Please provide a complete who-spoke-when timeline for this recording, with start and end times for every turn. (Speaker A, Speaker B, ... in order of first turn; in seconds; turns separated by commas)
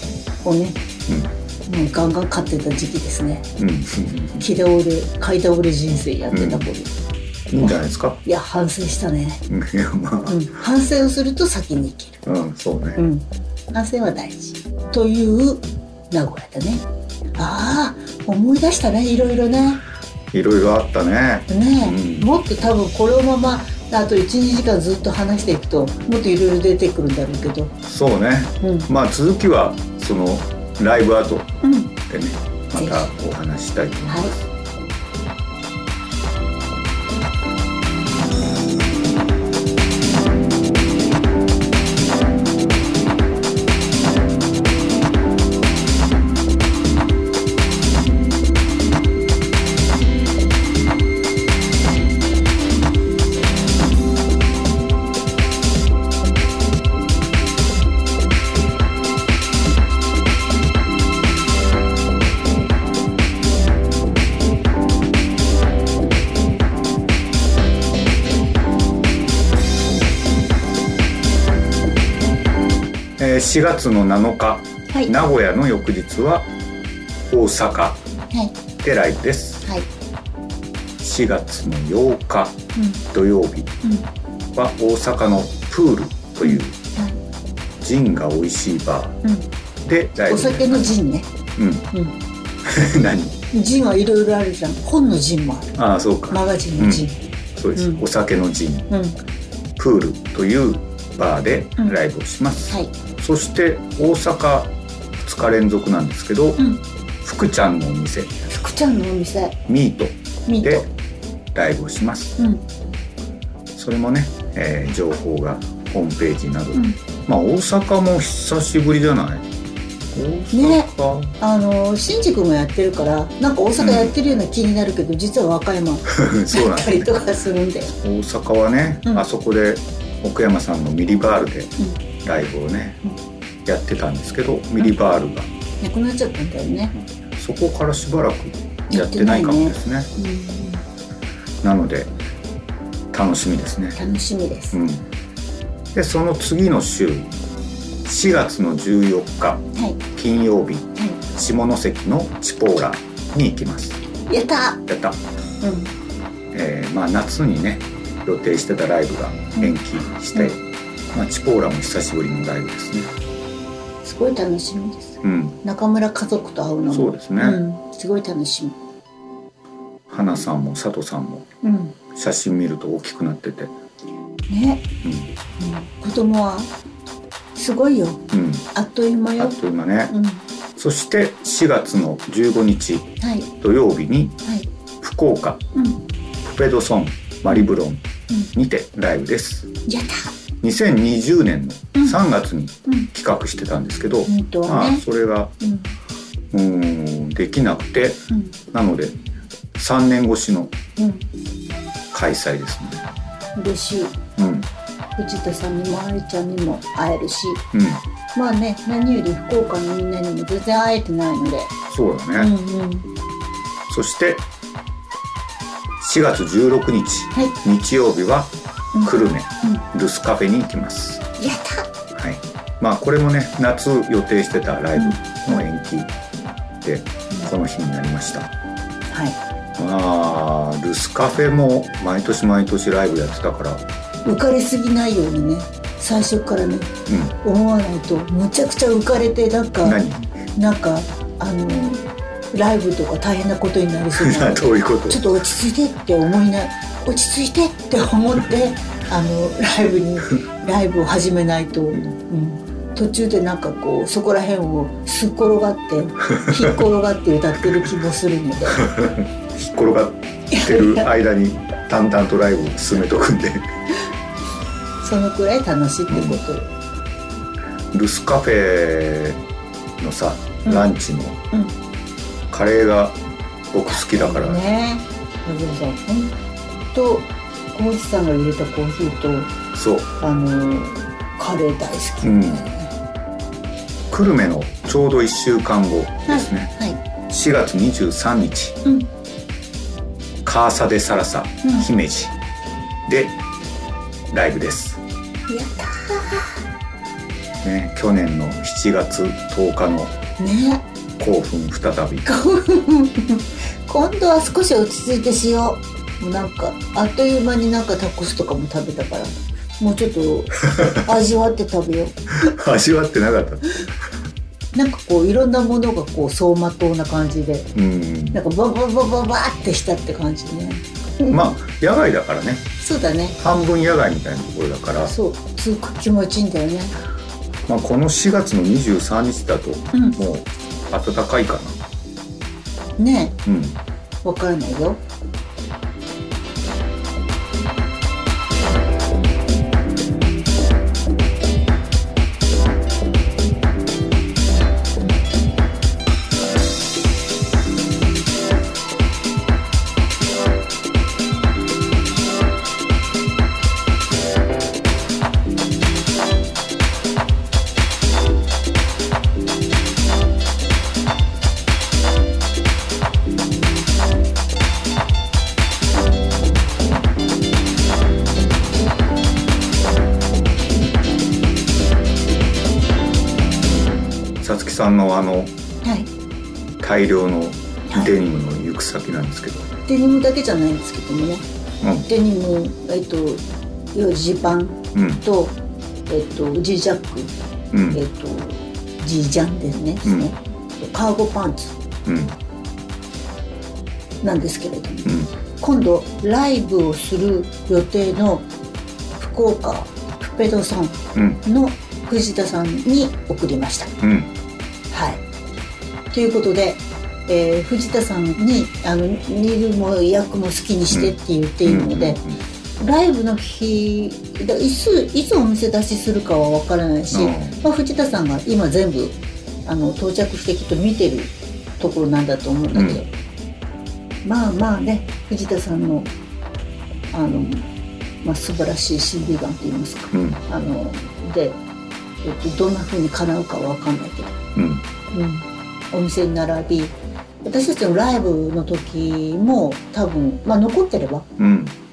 Speaker A: 0.4-0.8, Speaker A: 1.6-3.5, Speaker B: 3.6-4.5, Speaker A: 4.4-6.9, Speaker B: 6.3-6.7, Speaker B: 7.5-8.2, Speaker A: 7.5-9.4, Speaker B: 9.5-10.4, Speaker A: 10.3-12.2, Speaker B: 12.2-13.0, Speaker A: 12.9-16.8, Speaker A: 17.4-19.8, Speaker B: 20.3-22.3, Speaker A: 21.5-27.7, Speaker B: 27.8-31.5, Speaker A: 28.6-28.9, Speaker A: 31.6-31.9, Speaker B: 32.1-34.4, Speaker A: 32.8-33.1, Speaker A: 34.1-34.3, Speaker B: 73.2-76.5, Speaker B: 77.3-78.0, Speaker B: 78.8-79.6, Speaker B: 81.0-82.6, Speaker A: 82.7-83.0, Speaker B: 83.1-83.7, Speaker B: 84.5-86.8, Speaker A: 86.4-87.2, Speaker B: 87.8-89.2, Speaker B: 89.8-90.9, Speaker A: 90.3-91.3, Speaker B: 91.6-91.8, Speaker B: 92.6-93.4, Speaker A: 93.5-95.7, Speaker B: 95.8-98.9, Speaker A: 96.3-97.1, Speaker A: 97.8-98.0, Speaker A: 98.9-99.2, Speaker B: 99.8-106.6, Speaker B: 107.2-108.4, Speaker A: 108.5-109.6, Speaker B: 109.7-110.8, Speaker A: 110.5-110.8, Speaker B: 111.5-112.4, Speaker B: 113.7-119.5, Speaker B: 120.1-121.3, Speaker A: 120.5-127.9, Speaker B: 123.8-124.1, Speaker B: 126.1-127.1, Speaker B: 128.0-133.0, Speaker B: 133.6-135.5, Speaker A: 135.8-136.9, Speaker B: 136.9-140.1, Speaker A: 138.9-140.8, Speaker B: 141.6-142.1, Speaker B: 143.1-144.0, Speaker A: 143.9-144.8, Speaker B: 144.7-145.0, Speaker B: 145.9-147.3, Speaker B: 148.0-154.0, Speaker A: 154.3-154.8, Speaker B: 154.9-155.2, Speaker A: 155.6-155.9, Speaker B: 156.5-160.6, Speaker B: 161.1-163.1, Speaker A: 164.0-168.8, Speaker B: 165.2-165.6, Speaker B: 166.9-167.6, Speaker B: 170.1-171.4, Speaker A: 171.6-171.9, Speaker B: 172.1-173.7, Speaker A: 174.5-174.9, Speaker B: 175.0-175.3, Speaker A: 175.6-176.7, Speaker A: 177.6-179.6, Speaker B: 178.3-178.7, Speaker B: 179.4-180.1, Speaker A: 180.1-180.4, Speaker B: 180.8-184.4, Speaker A: 183.2-183.5, Speaker B: 185.0-185.6, Speaker A: 185.7-186.0, Speaker B: 186.4-189.7, Speaker A: 189.9-190.3, Speaker B: 190.6-195.5, Speaker A: 194.3-195.0, Speaker A: 195.6-195.9, Speaker B: 196.5-199.2, Speaker A: 198.3-198.6, Speaker B: 199.8-200.7, Speaker A: 201.0-201.2, Speaker B: 202.1-203.0, Speaker A: 203.5-204.2, Speaker B: 204.4-204.7, Speaker A: 205.2-207.6, Speaker B: 207.7-208.0, Speaker A: 208.3-211.7, Speaker B: 211.9-212.5, Speaker A: 212.4-213.1, Speaker B: 213.9-214.4, Speaker B: 216.0-221.2, Speaker A: 218.9-219.8, Speaker A: 221.4-221.9, Speaker B: 222.1-226.1, Speaker A: 225.0-225.2, Speaker B: 226.8-228.5, Speaker A: 229.1-229.4, Speaker B: 229.8-233.8, Speaker A: 234.2-236.9, Speaker B: 237.1-237.3, Speaker A: 237.4-240.0, Speaker B: 239.8-240.3, Speaker A: 240.6-258.8, Speaker B: 244.1-245.2, Speaker B: 251.9-252.2, Speaker B: 256.3-256.8, Speaker B: 258.7-263.7, Speaker A: 260.5-261.1, Speaker A: 265.0-266.7, Speaker B: 266.1-266.4, Speaker B: 267.9-269.4, Speaker B: 270.0-271.4, Speaker A: 270.6-270.9, Speaker B: 272.5-273.2, Speaker B: 273.7-274.6, Speaker A: 273.9-276.3, Speaker A: 276.9-279.5, Speaker B: 279.7-280.1, Speaker A: 280.2-282.9, Speaker B: 282.2-282.6, Speaker B: 284.1-286.7, Speaker A: 286.3-287.0, Speaker B: 287.3-288.8, Speaker B: 290.4-292.3, Speaker B: 293.0-293.4, Speaker B: 294.3-295.0, Speaker A: 295.5-296.6, Speaker B: 297.6-300.1, Speaker A: 300.4-300.8, Speaker B: 301.2-302.3, Speaker A: 302.2-312.5, Speaker B: 312.4-313.6, Speaker A: 314.7-317.7, Speaker B: 317.7-318.4, Speaker A: 318.3-321.3, Speaker B: 321.3-322.6, Speaker A: 322.8-323.4, Speaker B: 323.4-325.1, Speaker A: 325.0-326.9, Speaker B: 327.7-331.8, Speaker A: 329.9-330.2, Speaker A: 333.0-333.4, Speaker B: 333.4-333.8, Speaker A: 334.2-335.0, Speaker B: 374.4-375.5, Speaker A: 375.8-376.1, Speaker B: 376.8-379.7, Speaker A: 379.9-381.5, Speaker B: 381.8-382.1, Speaker A: 382.1-383.4, Speaker A: 383.9-385.5, Speaker B: 384.9-385.2, Speaker A: 386.1-387.3, Speaker B: 387.7-388.0, Speaker A: 387.9-391.8, Speaker B: 392.1-392.3, Speaker A: 394.2-398.4, Speaker B: 395.0-395.3, Speaker A: 399.2-403.9, Speaker B: 401.1-401.4, Speaker B: 404.0-404.3, Speaker A: 404.9-405.2, Speaker A: 406.1-412.2, Speaker B: 410.9-412.4, Speaker A: 412.8-423.1, Speaker B: 417.1-417.6, Speaker B: 422.7-423.0, Speaker A: 424.2-426.1, Speaker A: 427.1-427.7, Speaker A: 428.2-431.6, Speaker B: 430.1-430.4, Speaker A: 432.2-434.4, Speaker B: 434.5-434.8, Speaker A: 435.1-441.3, Speaker B: 441.4-441.8